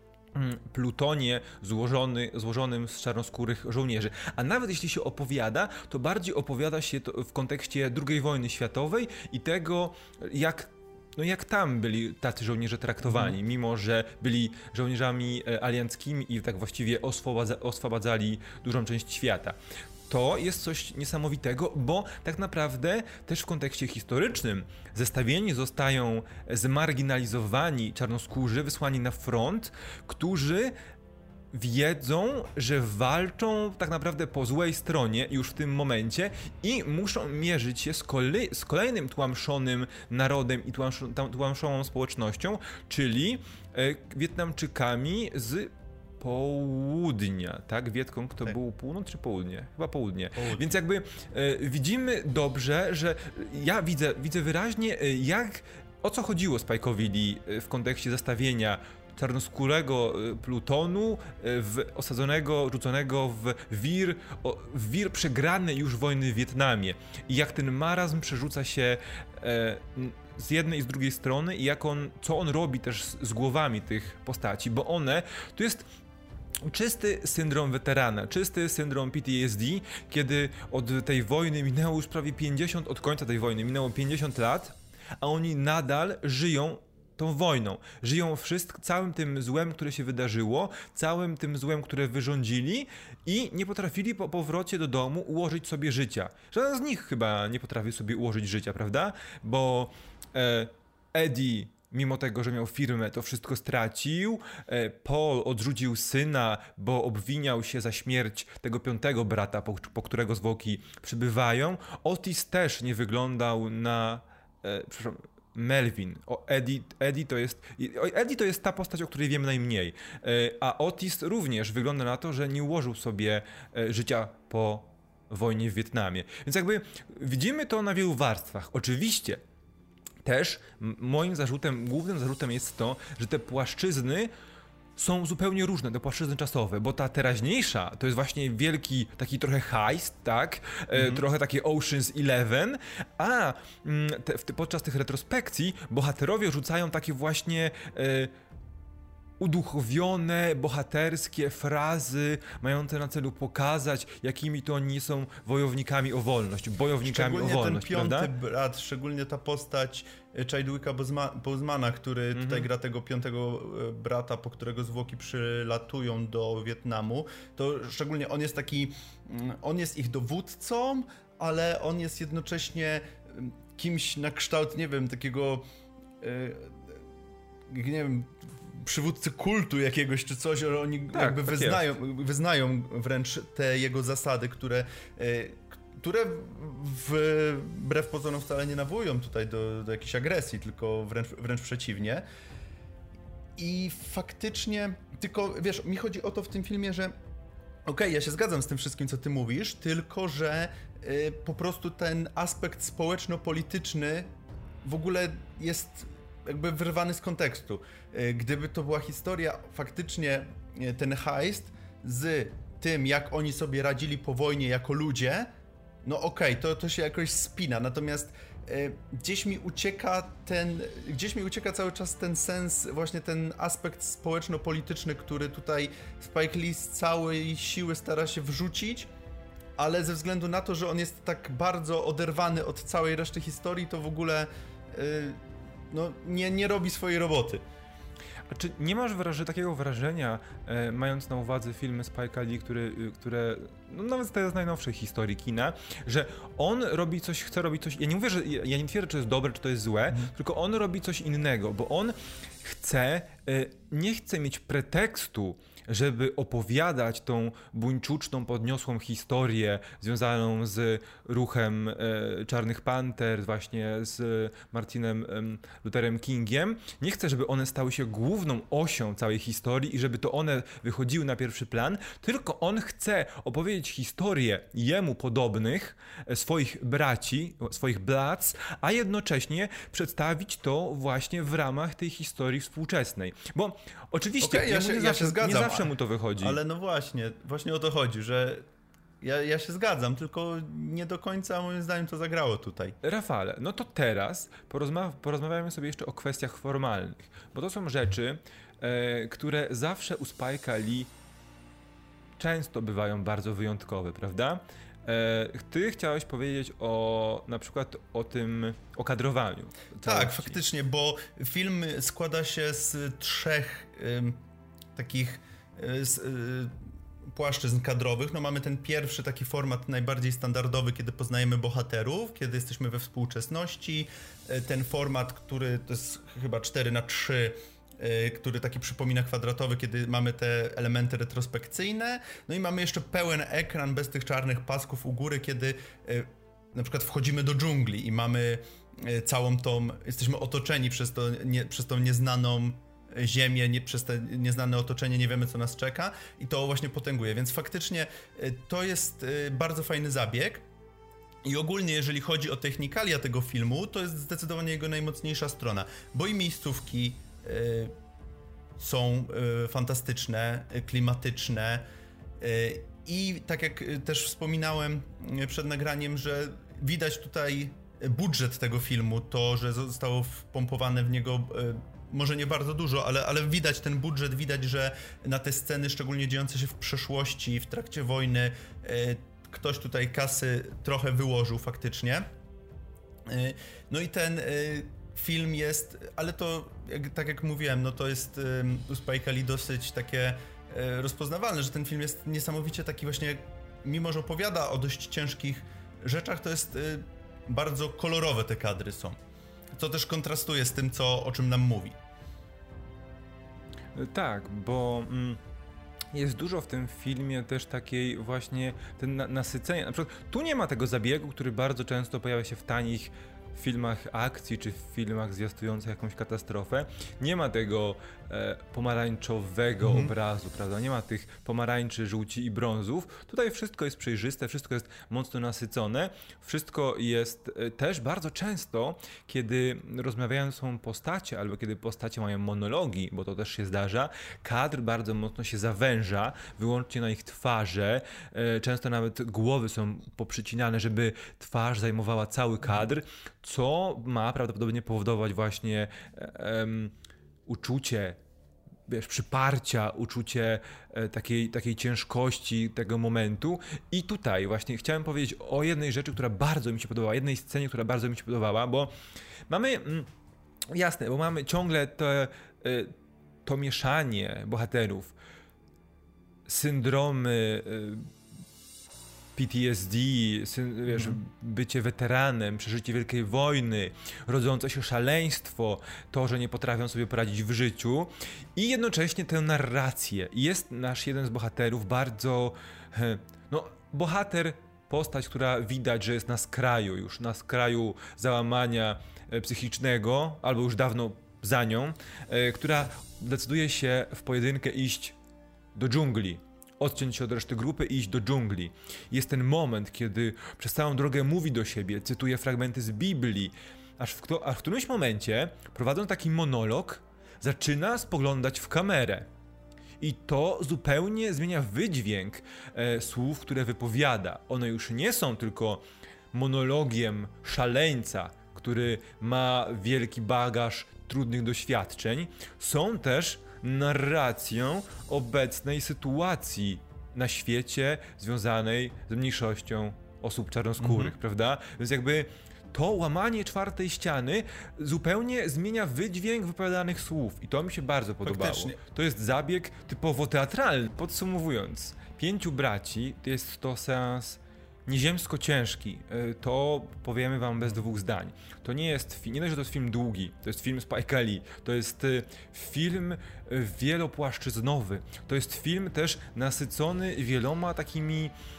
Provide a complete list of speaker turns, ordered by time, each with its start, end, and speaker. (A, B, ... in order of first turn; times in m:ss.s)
0:00.3-0:30.7 A
0:13.0-0:13.3 B
0:31.5-1:15.9 A
0:50.3-0:50.8 B
1:16.6-2:09.4 A
2:10.2-2:14.3 A
2:15.0-2:28.3 A
2:20.9-2:21.2 B
2:29.4-2:38.3 A
2:37.0-2:55.6 B
2:42.3-2:42.7 A
2:56.2-2:57.0 B
2:57.7-3:12.2 B
3:01.1-3:01.9 A
3:13.6-3:17.1 B
3:17.8-3:24.3 B
3:24.8-3:35.5 B
3:36.0-3:49.1 B
3:49.8-3:57.6 B
3:58.5-4:46.6 A
4:44.4-4:48.6 B
4:49.2-4:53.0 B
4:53.0-5:01.1 A
5:02.4-5:10.6 A
5:10.0-5:14.4 B
5:14.9-5:16.7 B
5:17.3-5:50.6 B
5:51.4-5:57.9 B
5:58.8-6:01.8 B
6:02.4-6:22.2 B
6:23.2-6:39.2 B
6:39.8-6:42.0 B
6:43.9-6:45.4 A
6:46.1-7:26.9 A
6:59.8-7:00.1 B
7:27.5-7:28.2 A
7:28.9-7:38.9 A
7:39.5-7:40.1 A
7:40.7-7:42.9 A
7:43.4-7:45.1 A
7:46.4-7:48.0 A
7:49.4-8:15.2 A
7:50.9-7:51.2 B
8:15.7-8:29.3 A
8:30.0-9:18.3 A
8:50.8-8:51.1 B
8:58.2-8:58.8 B